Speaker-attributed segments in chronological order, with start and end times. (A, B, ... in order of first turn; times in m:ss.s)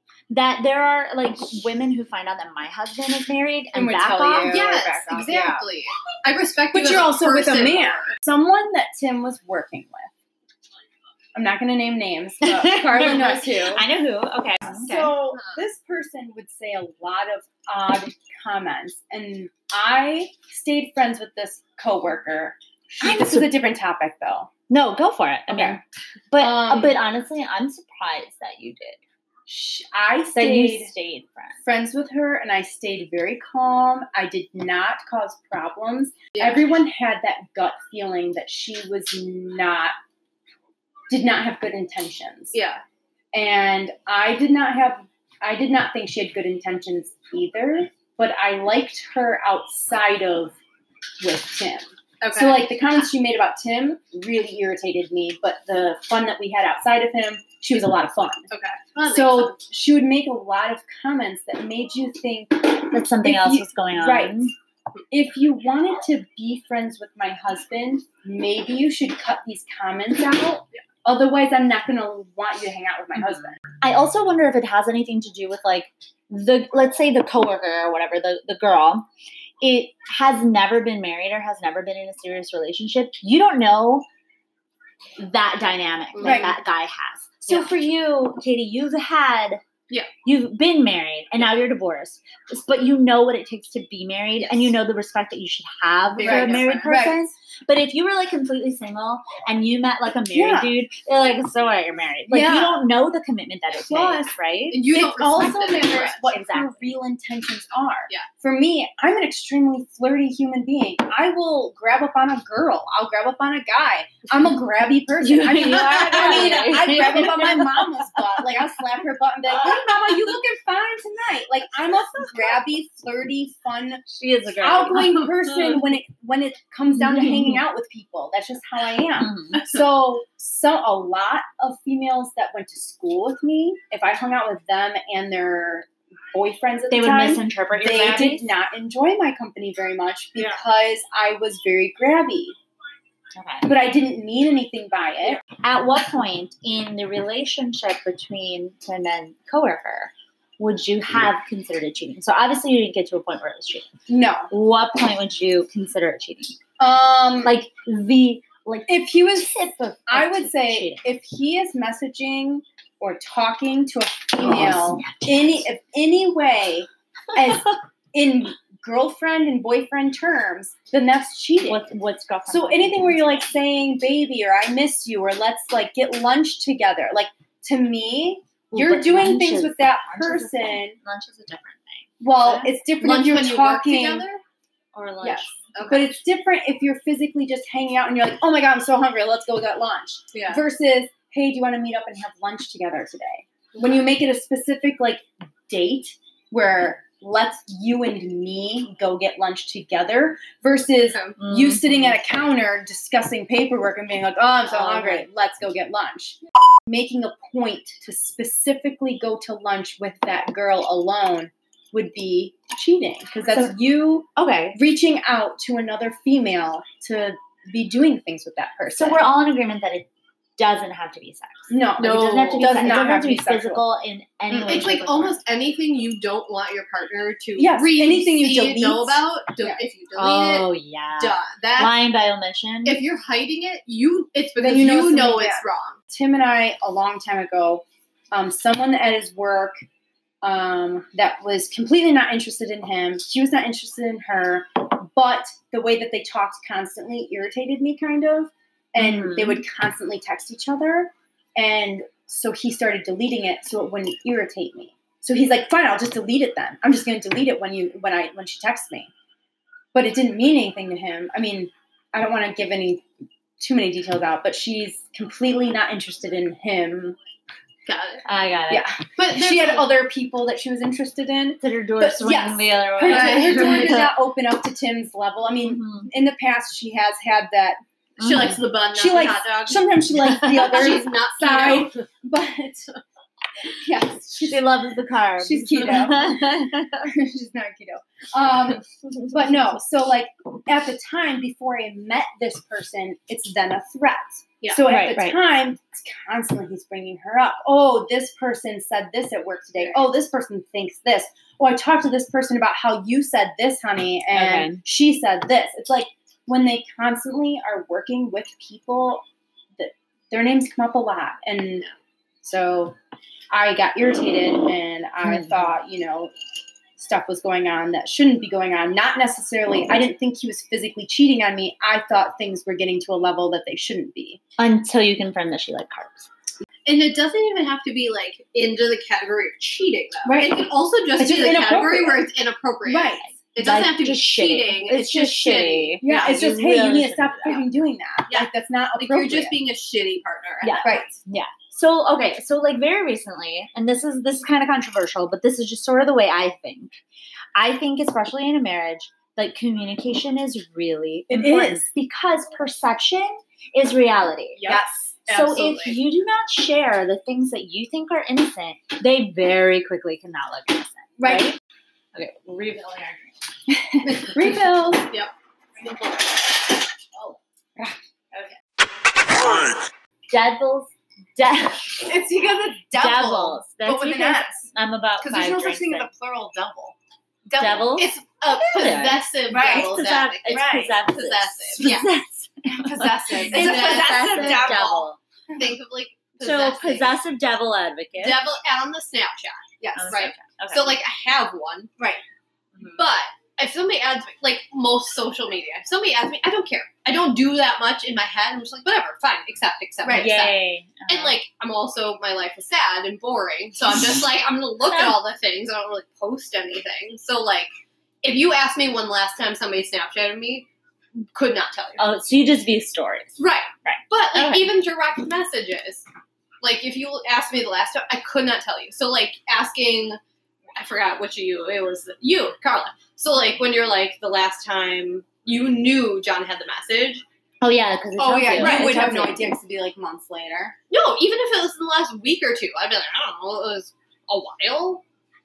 0:00.3-0:04.6 A
0:03.7-0:05.6 B
0:04.5-0:08.1 C
0:06.7-0:10.1 B
0:11.3-0:13.8 B
0:12.4-0:15.1 A
0:14.7-0:24.5 B
0:14.9-0:15.6 C
0:23.0-0:23.5 A
0:24.7-0:25.8 A
0:25.5-0:25.8 B
0:26.3-0:29.0 A
0:26.4-0:27.0 B
0:29.5-0:30.9 B
0:30.4-0:31.6 A
0:31.6-0:39.9 B
0:36.3-0:36.6 C
0:41.1-0:42.6 B
0:42.5-0:42.8 C
0:43.3-0:50.6 B
0:51.2-0:58.5 B
0:52.2-0:52.7 C
0:58.5-0:59.6 C
0:59.0-1:04.4 B
1:02.9-1:04.5 A
1:05.1-1:13.6 B
1:13.2-1:19.1 A
1:19.6-1:24.0 A
1:25.2-1:29.6 A
1:26.1-1:26.5 C
1:26.2-1:26.5 B
1:30.2-1:44.8 A
1:36.1-1:36.9 C
1:36.2-1:37.2 B
1:40.3-1:40.7 B
1:42.3-1:42.8 B
1:43.9-1:44.1 C
1:44.7-1:46.2 C
1:44.9-2:04.0 B
1:46.3-1:46.8 A
1:55.2-1:57.9 A
1:56.2-1:56.9 C
2:04.1-2:05.7 A
2:04.6-2:22.6 B
2:06.9-2:07.6 A
2:09.2-2:09.6 A
2:16.9-2:18.5 A
2:23.3-2:23.7 A
2:23.6-2:25.4 B
2:25.6-2:33.9 A
2:34.1-2:34.5 B
2:34.5-2:36.6 A
2:36.8-2:37.5 B
2:37.4-2:41.0 A
2:38.9-2:51.8 B
2:44.4-2:45.7 A
2:51.6-2:53.5 A
2:52.5-3:01.0 B
2:58.7-3:02.1 A
3:02.2-3:04.2 B
3:02.6-3:04.4 C
3:04.9-3:05.6 A
3:05.2-3:39.2 B
3:05.7-3:06.1 C
3:10.3-3:10.6 C
3:21.4-3:22.2 A
3:24.7-3:25.3 A
3:33.5-3:33.7 A
3:34.4-3:34.8 A
3:38.9-3:45.4 A
3:41.7-3:43.8 B
3:42.0-3:42.7 C
3:44.5-3:44.8 B
3:44.5-3:52.0 C
3:47.6-3:49.8 B
3:50.1-3:53.0 A
3:52.8-3:56.0 C
3:54.6-3:59.8 B
4:00.4-4:19.1 B
4:09.0-4:09.6 A
4:19.9-4:23.0 B
4:23.6-4:27.2 B
4:27.8-4:28.2 C
4:28.2-4:28.9 A
4:28.7-4:37.8 B
4:29.2-4:29.9 C
4:31.6-4:34.1 A
4:33.0-4:34.1 C
4:35.6-4:36.1 A
4:38.2-4:38.6 A
4:38.2-4:42.0 C
4:38.9-4:42.9 B
4:43.8-4:44.6 B
4:44.4-4:47.1 A
4:45.4-4:46.4 B
4:47.0-5:09.2 B
4:54.8-4:55.4 A
5:04.3-5:04.8 A
5:09.8-5:11.8 B
5:12.4-5:13.0 B
5:13.5-5:16.3 B
5:15.2-5:15.7 A
5:17.0-5:24.4 B
5:24.6-5:26.3 A
5:26.8-5:36.0 C
5:30.2-5:32.3 B
5:32.8-5:33.7 B
5:33.6-5:37.6 A
5:36.0-5:39.6 B
5:38.3-5:41.0 C
5:40.6-5:46.9 A
5:40.8-5:41.2 B
5:47.5-5:54.8 A
5:51.3-5:51.9 B
5:54.6-5:54.9 C
5:54.6-5:55.9 B
5:55.3-6:01.6 A
5:55.4-5:55.8 C
6:01.2-6:01.5 B
6:02.1-6:03.3 A
6:04.0-6:05.1 B
6:07.8-6:08.5 A
6:09.4-6:09.8 A
6:10.3-6:12.1 A
6:12.0-6:14.7 B
6:12.9-6:16.1 A
6:15.2-6:16.9 B
6:17.4-6:17.9 B
6:17.6-6:25.2 A
6:17.9-6:22.0 C
6:19.5-6:20.0 B
6:20.5-6:20.9 B
6:22.7-6:24.9 B
6:23.4-6:27.2 C
6:26.4-6:28.4 A
6:28.2-6:31.9 C
6:29.8-6:30.2 B
6:29.9-6:31.0 A
6:32.0-6:32.2 B
6:32.9-6:47.7 C
6:40.0-6:40.4 B
6:40.1-6:41.4 A
6:44.9-6:45.2 A
6:48.2-6:52.0 C
6:52.0-6:54.7 A
6:53.4-6:56.0 C
6:56.6-7:00.2 C
7:00.8-7:07.2 C
7:07.6-7:09.5 A
7:08.2-7:10.7 B
7:08.6-7:09.0 C
7:10.9-7:15.0 C